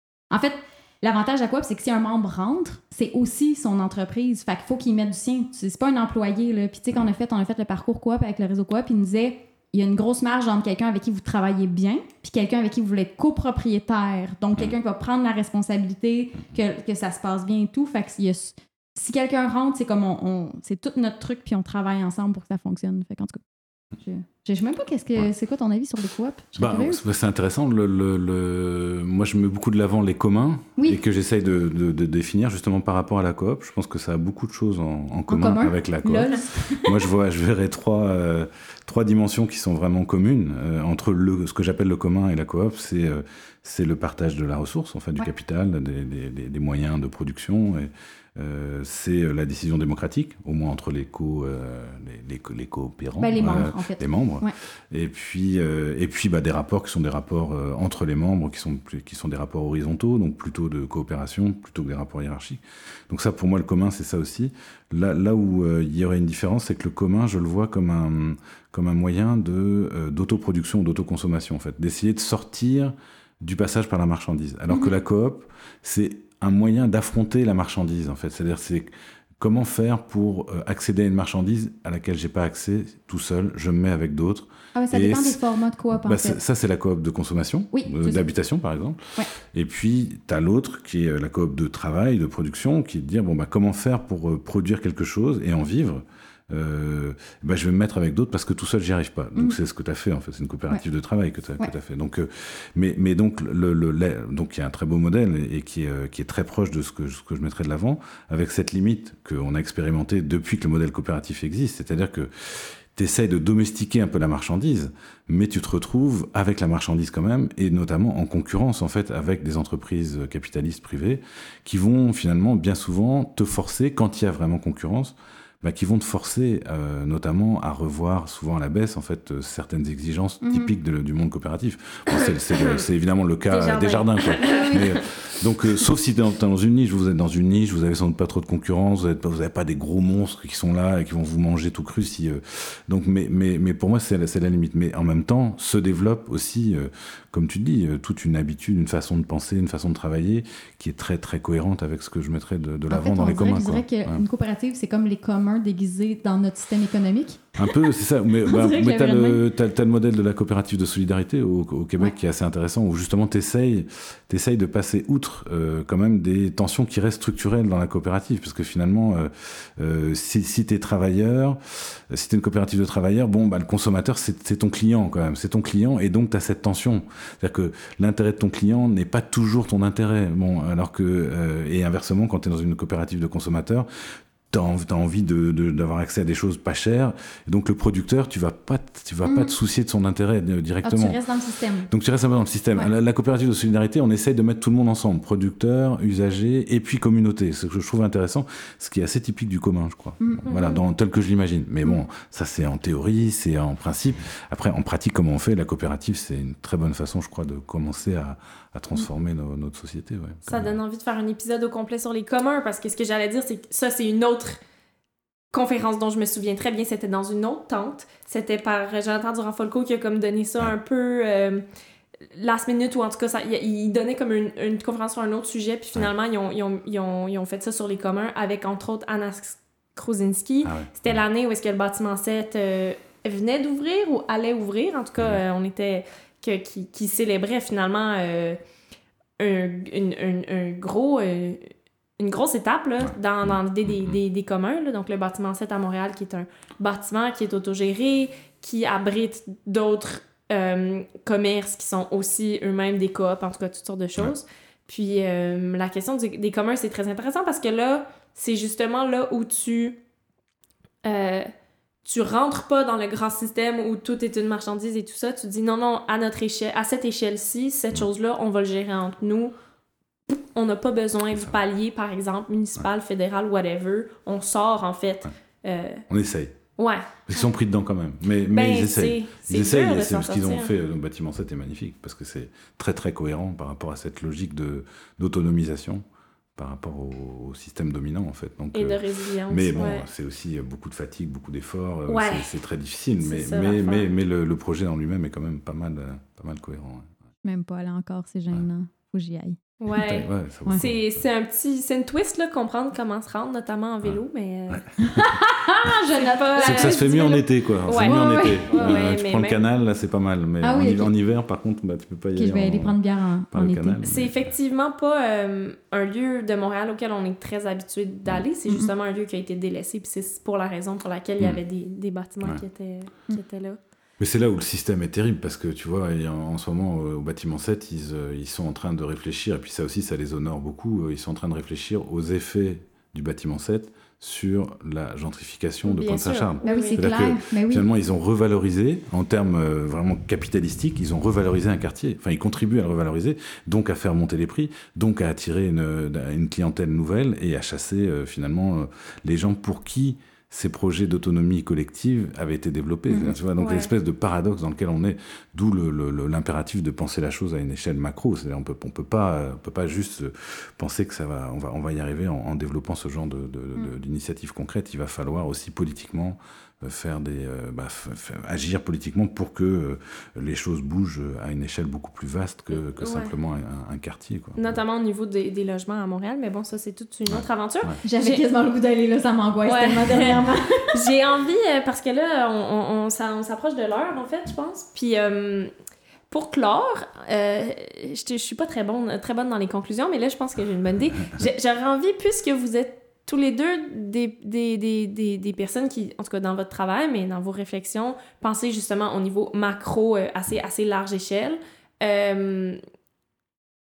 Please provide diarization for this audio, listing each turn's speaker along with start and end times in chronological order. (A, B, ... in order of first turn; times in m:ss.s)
0:00.3-0:23.4 A
0:24.0-0:27.0 A
0:26.6-1:25.4 B
0:30.8-0:31.0 A
0:35.3-0:37.1 A
0:53.2-0:54.5 A
1:14.7-1:15.0 A
1:24.7-1:26.4 A
1:26.0-2:34.2 B
1:27.7-1:28.2 A
2:10.4-2:10.7 A
2:13.5-2:15.0 C
2:14.4-2:14.9 A
2:32.9-2:37.8 A
2:37.6-3:03.9 B
2:38.4-2:39.4 A
3:04.5-3:11.2 B
3:09.2-3:09.5 A
3:10.8-3:11.9 A
3:11.9-3:30.7 B
3:20.2-3:20.5 A
3:20.4-3:20.8 C
3:30.5-3:34.6 C
3:35.5-3:41.6 C
3:42.3-3:58.6 C
3:50.6-3:51.1 B
3:59.4-4:20.0 C
4:21.0-4:21.5 C
4:22.0-4:29.5 C
4:30.3-4:36.0 C
4:31.3-4:31.6 B
4:36.1-4:36.6 B
4:36.8-4:37.1 C
4:37.2-4:46.0 B
4:38.5-4:40.7 C
4:46.6-4:57.1 B
4:48.7-4:50.1 C
4:52.1-4:52.5 C
4:53.2-4:54.1 C
4:57.4-4:59.6 A
4:59.8-5:04.9 C
5:00.0-5:01.1 B
5:04.7-5:05.3 B
5:05.0-5:07.3 A
5:06.1-5:09.6 C
5:06.6-5:13.0 B
5:08.0-5:09.0 A
5:10.6-5:11.1 A
5:12.3-5:14.0 A
5:13.5-5:14.5 B
5:14.0-5:23.8 C
5:24.2-6:14.7 B
5:35.8-5:37.0 C
5:36.6-5:37.9 A
5:53.1-5:53.4 A
5:53.6-5:53.9 C
6:13.0-6:13.3 C
6:14.6-6:18.4 C
6:17.3-6:18.0 B
6:18.0-6:20.7 A
6:19.6-6:25.7 C
6:26.3-6:42.8 C